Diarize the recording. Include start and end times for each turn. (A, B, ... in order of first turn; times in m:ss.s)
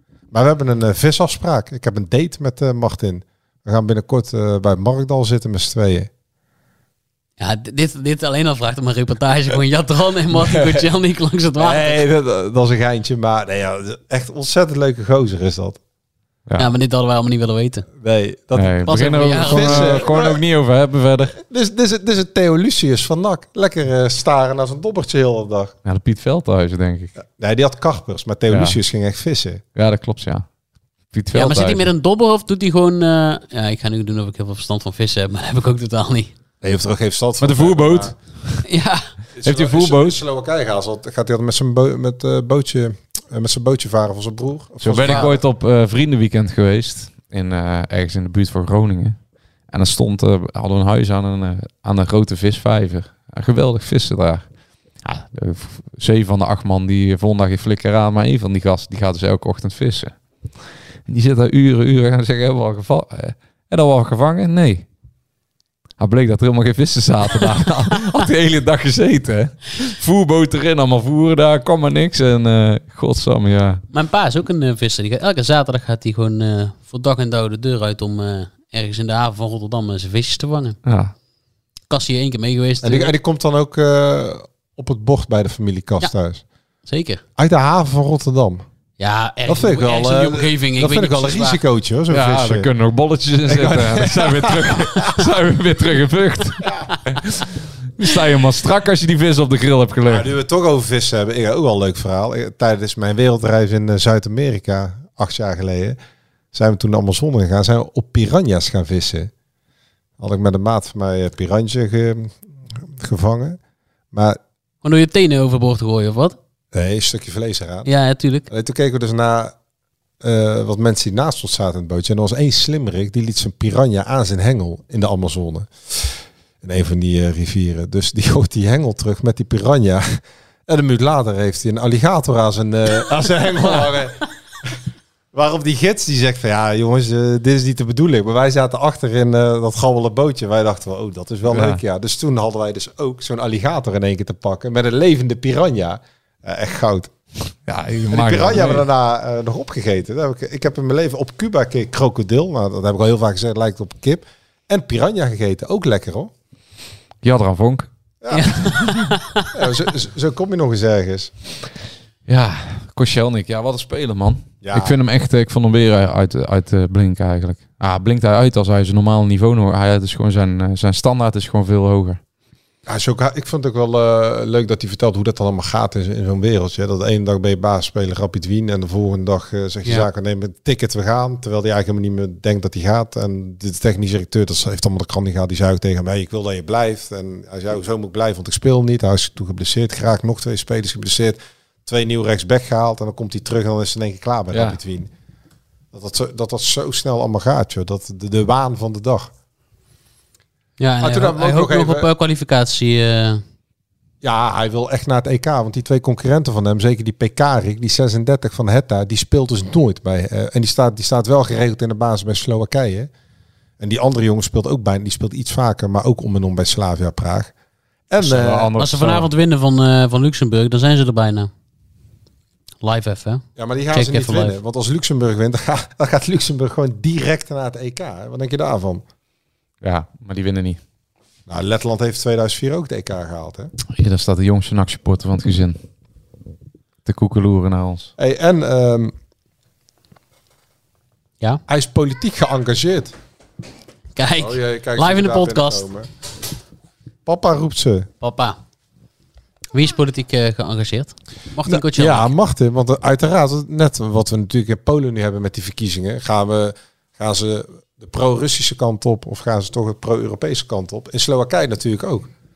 0:00.3-0:06.1 A
0:07.4-0:12.0 B
0:10.4-0:10.9 C
0:11.6-0:15.8 A
0:16.6-0:17.9 B
0:18.0-0:20.4 A
0:18.6-0:21.4 C
0:18.9-0:20.0 B
0:21.4-0:25.7 A
0:25.8-0:27.1 C
0:27.2-0:29.6 A
0:28.5-0:28.8 C
0:29.8-0:30.4 C
0:31.1-0:31.9 C
0:31.3-0:36.3 B
0:36.6-0:38.1 A
0:37.4-0:38.6 C
0:38.7-0:39.1 B
0:39.4-0:45.4 A
0:39.4-0:40.2 C
0:44.8-0:49.2 C
0:49.7-0:54.4 C
0:55.0-1:00.2 C
1:01.1-1:04.9 C
1:06.0-1:13.8 C
1:13.9-1:20.8 B
1:20.8-1:21.1 C
1:21.9-1:23.1 B
1:22.8-1:26.4 A
1:26.9-1:27.2 B
1:27.4-1:28.6 A
1:29.0-1:31.6 B
1:29.4-1:32.7 A
1:32.1-1:40.3 C
1:33.5-1:35.2 A
1:40.1-1:46.0 A
1:46.5-1:49.3 A
1:50.2-1:53.6 A
1:54.1-1:54.4 A
1:54.8-1:56.4 B
1:56.7-1:57.9 A
1:57.8-1:58.5 B
1:58.5-1:59.6 A
2:00.2-2:14.8 A
2:15.3-2:27.1 A
2:21.5-2:21.8 C
2:27.7-2:28.8 C
2:28.1-2:36.3 A
2:37.2-2:37.9 C
2:38.2-2:38.6 A
2:38.3-2:39.5 B
2:38.6-2:39.1 C
2:39.5-2:41.3 A
2:42.3-2:52.2 C
2:44.6-2:45.0 A
2:52.9-3:15.1 A
3:14.5-3:14.8 C
3:15.9-3:19.3 A
3:20.8-3:23.4 B
3:21.0-3:22.1 A
3:24.2-3:33.1 A
3:33.8-3:37.5 A
3:38.1-3:38.7 A
3:38.2-3:39.3 C
3:38.8-3:41.5 B
3:42.8-3:44.6 B
3:43.6-3:49.0 A
3:49.8-3:50.8 C
3:51.5-3:53.7 A
3:53.9-3:55.8 C
3:57.0-3:58.1 C
3:58.2-3:59.1 A
4:01.7-4:03.1 A
4:04.2-4:05.9 B
4:04.4-4:06.1 A
4:07.2-4:08.1 A
4:08.2-4:08.6 B
4:09.7-4:12.3 B
4:11.6-4:22.3 A